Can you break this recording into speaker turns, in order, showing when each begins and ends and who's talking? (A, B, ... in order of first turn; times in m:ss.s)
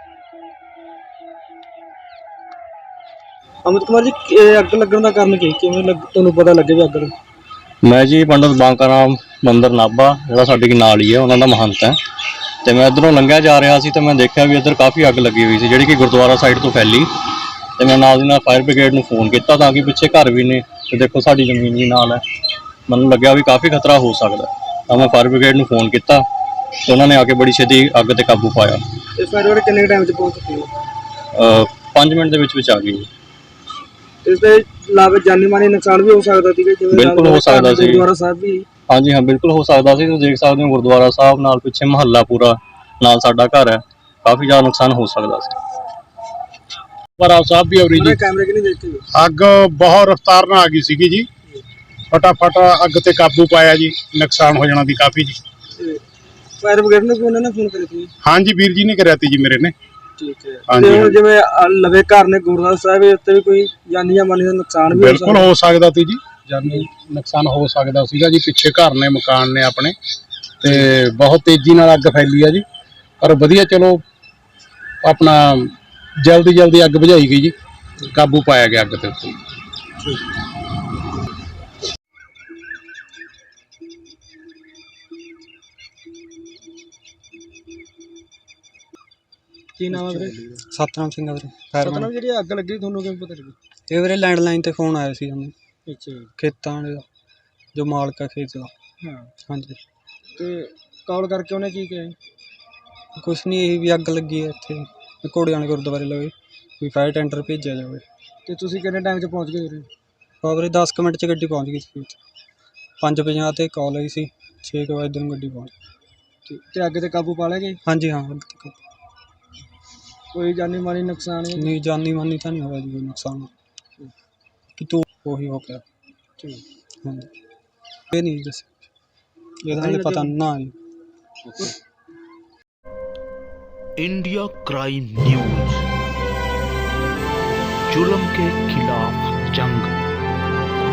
0:03.6-0:07.1 A
0:07.8-0:12.0 B
0:12.6-0:17.1 B
0:17.8-0:22.2 B
0:22.9-0:26.2 B
0:26.8-0:28.8 B
0:29.2-0:30.7 A
0:31.3-0:33.1 B
0:34.2-0:38.6 A
0:36.9-0:38.1 B
0:38.9-0:45.5 B
0:47.2-0:48.2 C
0:47.9-0:49.0 A
0:49.1-0:51.3 C
0:52.1-0:55.4 C
0:55.8-0:56.0 A
0:56.6-0:58.1 A
0:58.2-0:59.7 C
1:00.2-1:05.5 A
1:00.7-1:01.2 C
1:04.9-1:09.9 C
1:10.6-1:12.6 C
1:13.2-1:14.0 C
1:15.0-1:17.5 C
1:18.1-1:19.4 C
1:29.8-1:30.4 A
1:29.9-1:32.1 D
1:31.8-1:33.6 A
1:33.9-1:35.5 D
1:35.8-1:36.3 A
1:36.4-1:37.0 D
1:37.7-1:38.7 D
1:39.0-1:39.3 A
1:39.5-1:39.8 D
1:40.3-1:42.2 A
1:43.2-1:48.0 D
1:48.4-1:49.9 A
1:50.4-1:52.2 D
1:53.0-1:55.7 D
1:56.4-1:57.8 A
1:57.8-1:58.8 D
2:00.3-2:01.6 A
2:01.6-2:03.5 D
2:04.8-2:05.8 D
2:07.0-2:07.3 D
2:08.1-2:08.7 D
2:09.6-2:10.7 D
2:09.7-2:10.3 A
2:14.0-2:15.9 E
2:17.9-2:20.0 E